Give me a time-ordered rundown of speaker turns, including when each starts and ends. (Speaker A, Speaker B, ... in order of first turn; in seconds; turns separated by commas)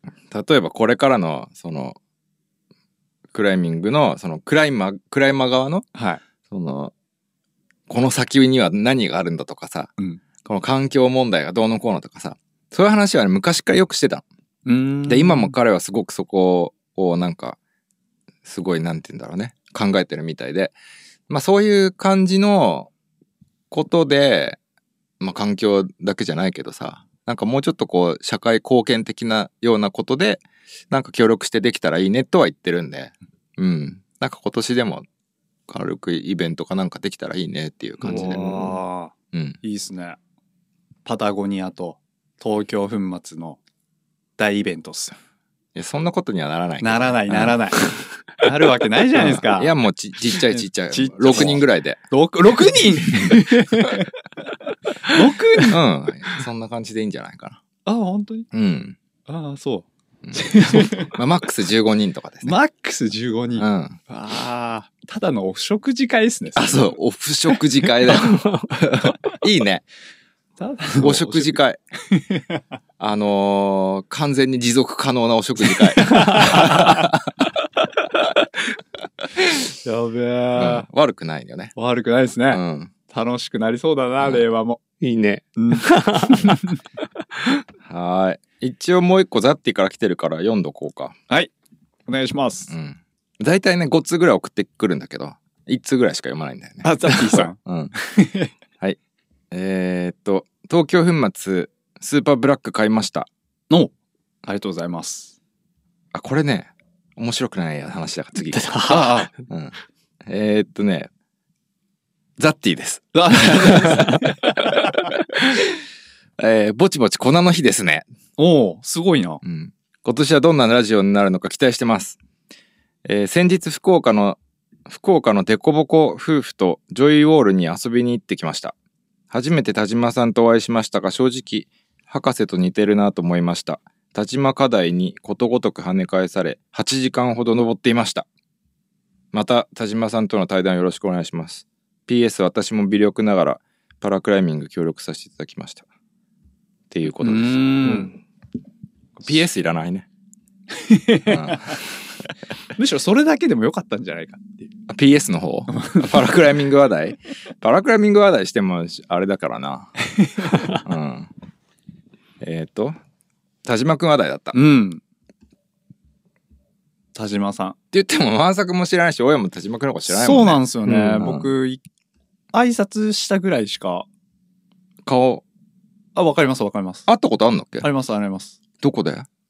Speaker A: 0.3-2.0, Speaker A: 3.3-5.8, Speaker B: 5.9-6.2, Speaker A: 6.5-6.9, Speaker A: 7.9-9.9, Speaker A: 10.4-14.2, Speaker B: 14.7-15.5, Speaker A: 15.1-17.6, Speaker A: 18.4-20.7, Speaker A: 21.3-22.9, Speaker A: 23.7-24.6, Speaker A: 25.2-35.0, Speaker A: 35.7-38.7, Speaker B: 38.0-40.2, Speaker C: 38.1-38.7, Speaker A: 39.3-39.6, Speaker B: 41.0-43.6, Speaker B: 44.4-45.1, Speaker A: 45.7-47.6, Speaker B: 46.8-49.7, Speaker A: 49.1-52.0, Speaker B: 50.3-54.1, Speaker A: 53.2-54.0, Speaker B: 55.0-55.8, Speaker A: 55.1-57.6, Speaker B: 57.8-58.5, Speaker A: 58.5-59.0, Speaker B: 59.3-61.1, Speaker A: 60.2-62.6, Speaker B: 62.4-67.0, Speaker A: 63.6-64.0, Speaker A: 66.5-69.8, Speaker C: 68.4-68.7, Speaker B: 70.6-72.6, Speaker A: 71.0-71.8, Speaker A: 73.0-77.3, Speaker B: 75.9-77.0, Speaker B: 79.8-80.8, Speaker A: 80.5-81.7, Speaker B: 81.8-84.8, Speaker A: 82.5-82.9, Speaker A: 84.2-84.4, Speaker C: 85.0-86.5, Speaker B: 85.5-86.6, Speaker A: 87.8-91.2, Speaker B: 92.1-92.7, Speaker A: 92.7-97.9, Speaker B: 96.8-98.5, Speaker A: 99.5-103.3, Speaker B: 104.4-105.3, Speaker A: 106.1-108.9, Speaker C: 108.5-109.3, Speaker B: 108.9-109.3, Speaker A: 109.5-111.1, Speaker A: 112.4-115.8, Speaker B: 113.1-114.7, Speaker A: 116.4-118.0, Speaker B: 118.4-119.4, Speaker A: 119.4-122.2, Speaker A: 123.0-128.7, Speaker A: 129.3-138.2, Speaker A: 139.3-145.8, Speaker A: 146.9-148.0, Speaker B: 147.2-148.1, Speaker A: 149.2-150.1, Speaker B: 150.7-151.8, Speaker A: 151.2-151.8, Speaker B: 152.8-154.7, Speaker A: 154.9-159.9, Speaker B: 155.7-156.1, Speaker B: 160.2-160.6, Speaker A: 160.7-161.3, Speaker A: 162.4-162.9, Speaker A: 163.6-164.6, Speaker B: 164.5-165.0, Speaker B: 167.1-167.8, Speaker A: 167.9-171.5, Speaker B: 170.1-171.8, Speaker B: 172.5-174.1, Speaker A: 175.0-175.4, Speaker B: 176.1-177.1, Speaker A: 177.1-177.9, Speaker B: 177.8-178.6, Speaker A: 178.8-179.3